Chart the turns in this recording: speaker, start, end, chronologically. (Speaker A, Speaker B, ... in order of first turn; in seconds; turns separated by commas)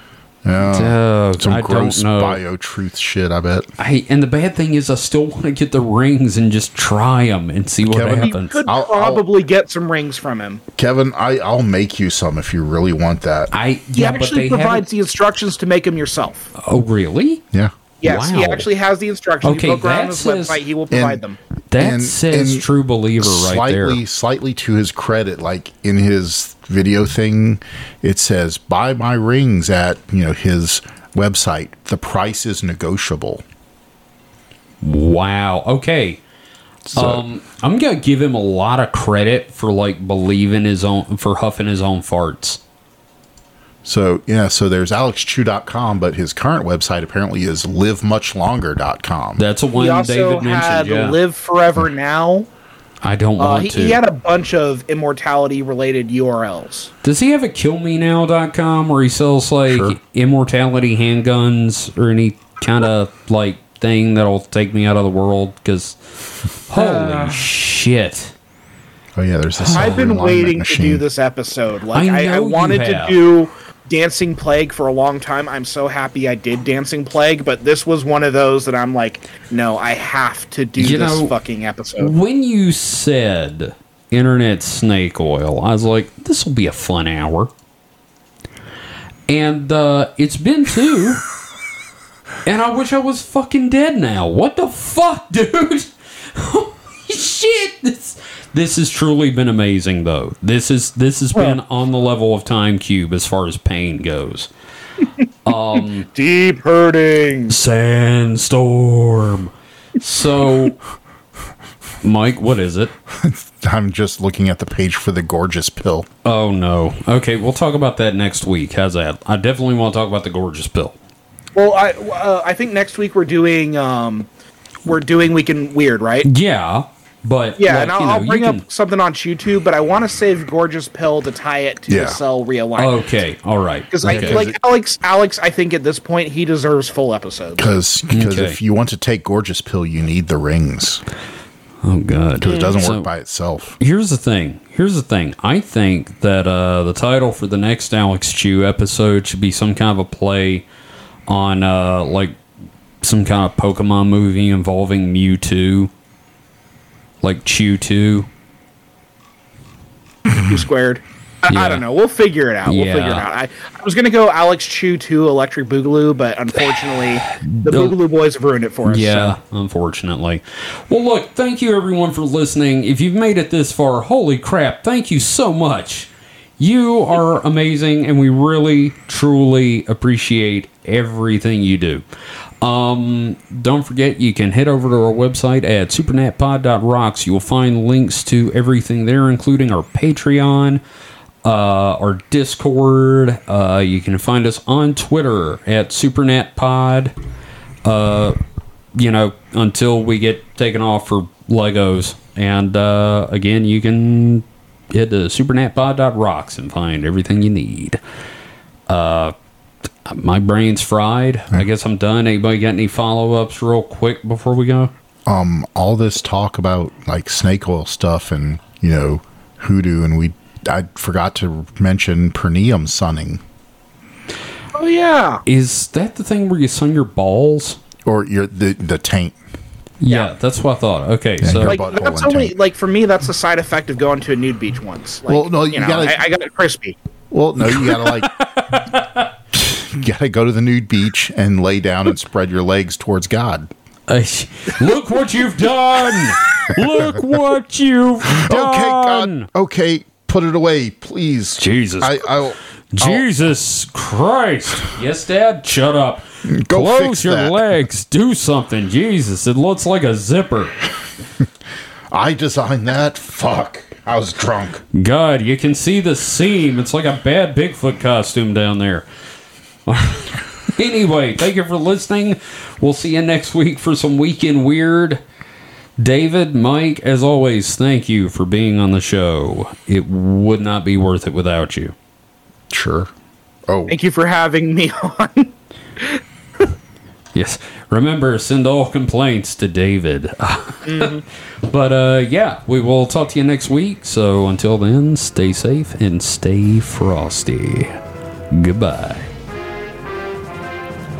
Speaker A: 0.4-3.7, Speaker B: 0.6-2.4, Speaker B: 3.8-8.6, Speaker A: 7.8-9.2, Speaker C: 8.2-10.6, Speaker A: 10.8-13.5, Speaker B: 13.5-14.8, Speaker C: 13.9-16.5, Speaker B: 16.6-17.4, Speaker C: 18.0-21.4, Speaker B: 18.0-18.7, Speaker B: 19.4-20.6, Speaker A: 20.9-21.2, Speaker B: 21.7-24.0, Speaker A: 21.8-22.6, Speaker A: 23.2-33.4, Speaker B: 34.8-36.2, Speaker A: 36.9-37.2, Speaker B: 36.9-42.6, Speaker A: 43.8-49.4, Speaker B: 49.4-51.2, Speaker C: 49.7-52.5, Speaker B: 53.0-54.0, Speaker C: 53.4-56.9, Speaker B: 57.0-68.3, Speaker A: 59.7-60.0, Speaker C: 66.7-67.5, Speaker A: 69.2-71.0, Speaker B: 69.6-70.1, Speaker C: 69.7-82.1, Speaker B: 71.9-73.2, Speaker B: 80.8-81.3, Speaker B: 82.0-87.5, Speaker B: 89.3-91.2, Speaker B: 92.4-104.5, Speaker B: 105.4-106.1, Speaker C: 106.1-107.6, Speaker B: 107.5-110.8, Speaker B: 112.0-112.9, Speaker A: 113.1-116.1, Speaker B: 116.2-121.0, Speaker C: 121.5-124.3, Speaker C: 124.8-126.3, Speaker B: 126.2-128.6, Speaker C: 127.6-133.0, Speaker A: 131.9-132.2, Speaker B: 132.8-134.4, Speaker C: 133.9-137.8, Speaker A: 134.0-134.5, Speaker A: 137.6-141.0, Speaker B: 138.1-138.6, Speaker B: 141.8-143.1, Speaker A: 142.4-143.8, Speaker C: 142.4-142.8, Speaker B: 143.8-150.7, Speaker B: 151.3-152.4, Speaker B: 153.0-155.9, Speaker B: 157.2-158.3, Speaker C: 160.3-169.3, Speaker B: 161.5-161.8, Speaker B: 162.7-163.2, Speaker B: 167.3-167.9, Speaker B: 168.8-182.0, Speaker B: 182.6-190.8, Speaker B: 191.4-197.1, Speaker B: 197.8-198.4, Speaker B: 198.9-208.0, Speaker B: 208.9-209.3, Speaker B: 210.1-214.9, Speaker A: 215.3-223.4, Speaker C: 224.7-225.4, Speaker B: 225.4-227.8, Speaker A: 228.1-229.3, Speaker B: 230.0-231.8, Speaker A: 231.4-232.5, Speaker C: 231.6-237.0, Speaker A: 235.3-236.2, Speaker A: 237.3-238.3, Speaker B: 237.9-239.3, Speaker A: 239.5-243.7, Speaker B: 244.1-249.5, Speaker A: 246.7-247.2, Speaker A: 248.2-253.4, Speaker B: 251.6-252.4, Speaker B: 252.9-260.7, Speaker A: 256.4-257.6, Speaker A: 262.1-264.8, Speaker B: 264.9-269.1, Speaker B: 269.9-275.2, Speaker B: 276.0-281.9, Speaker A: 282.7-283.1, Speaker A: 283.7-284.0, Speaker C: 283.9-286.2, Speaker B: 287.3-298.0, Speaker C: 290.9-291.2, Speaker B: 298.5-299.3